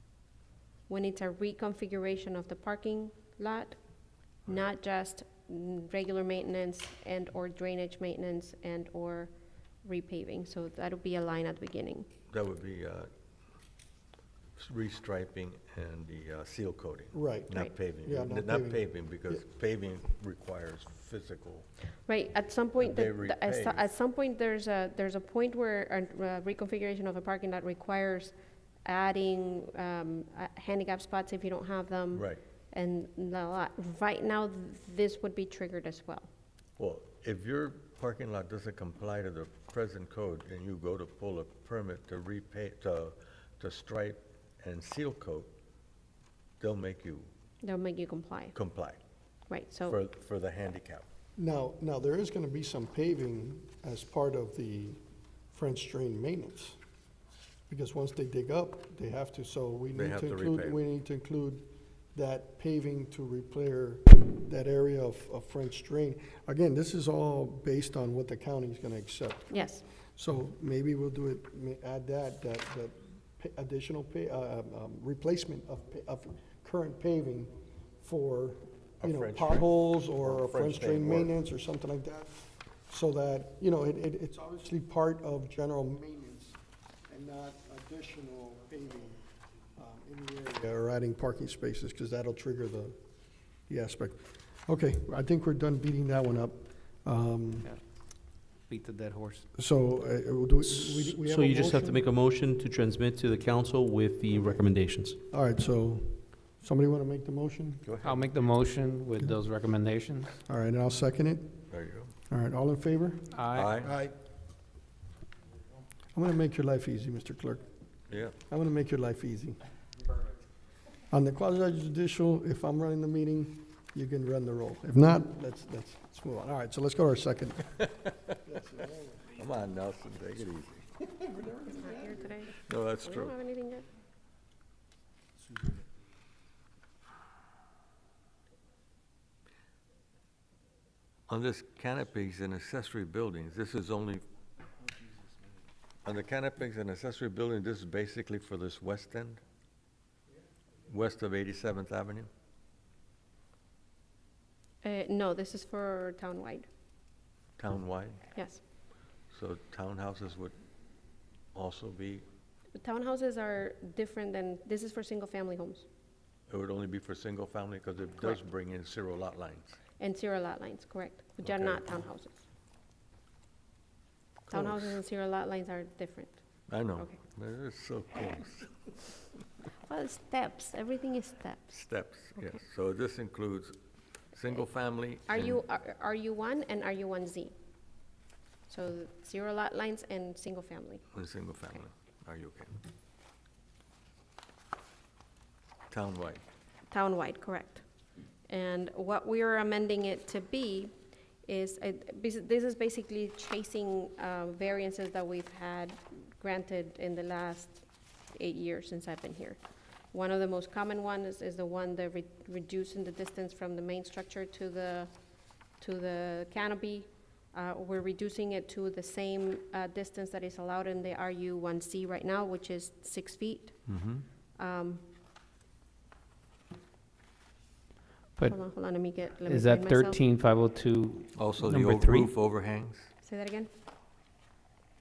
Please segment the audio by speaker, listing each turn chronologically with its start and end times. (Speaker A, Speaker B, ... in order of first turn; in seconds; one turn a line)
Speaker A: 0.9-3.8
Speaker A: 4.5-9.3
Speaker A: 9.8-12.1
Speaker B: 12.3-13.1
Speaker B: 14.6-21.7
Speaker C: 17.1-19.4
Speaker A: 22.1-28.3
Speaker B: 22.8-23.9
Speaker A: 28.9-36.3
Speaker B: 32.1-32.4
Speaker B: 36.8-45.5
Speaker B: 46.6-47.3
Speaker A: 47.6-48.6
Speaker B: 48.5-49.0
Speaker A: 49.5-50.0
Speaker B: 49.9-51.0
Speaker C: 51.4-55.0
Speaker C: 55.5-56.8
Speaker C: 57.7-93.0
Speaker B: 59.9-60.8
Speaker A: 69.5-69.8
Speaker B: 79.0-81.3
Speaker C: 93.7-97.7
Speaker D: 98.7-99.5
Speaker C: 99.5-102.0
Speaker E: 100.6-105.2
Speaker C: 105.3-107.8
Speaker B: 107.8-108.2
Speaker D: 108.0-110.4
Speaker C: 110.5-111.6
Speaker B: 111.7-112.1
Speaker C: 112.3-114.2
Speaker D: 113.3-113.8
Speaker B: 113.5-113.9
Speaker C: 116.2-117.7
Speaker B: 118.1-118.4
Speaker C: 118.5-119.6
Speaker C: 121.1-127.9
Speaker C: 128.4-129.4
Speaker B: 129.4-130.9
Speaker C: 131.1-132.3
Speaker A: 131.8-133.9
Speaker B: 132.6-133.3
Speaker B: 141.3-144.2
Speaker B: 146.0-149.4
Speaker B: 150.9-152.3
Speaker A: 154.8-156.7
Speaker B: 157.6-158.2
Speaker A: 158.3-158.6
Speaker B: 159.3-160.6
Speaker B: 161.5-162.3
Speaker A: 162.8-165.9
Speaker B: 166.5-169.8
Speaker A: 170.0-172.5
Speaker B: 171.4-172.1
Speaker B: 174.5-175.0
Speaker A: 174.5-177.2
Speaker B: 176.7-179.0
Speaker A: 179.8-181.8
Speaker B: 181.7-183.8
Speaker B: 184.3-185.6
Speaker A: 185.3-187.6
Speaker A: 188.7-191.1
Speaker B: 191.1-192.8
Speaker B: 195.9-196.4
Speaker A: 196.9-197.8
Speaker A: 198.5-200.9
Speaker A: 201.4-215.1
Speaker A: 215.8-223.8
Speaker B: 223.9-224.2
Speaker A: 224.6-225.0
Speaker A: 228.4-230.2
Speaker D: 229.5-232.3
Speaker B: 231.4-233.1
Speaker A: 233.2-233.7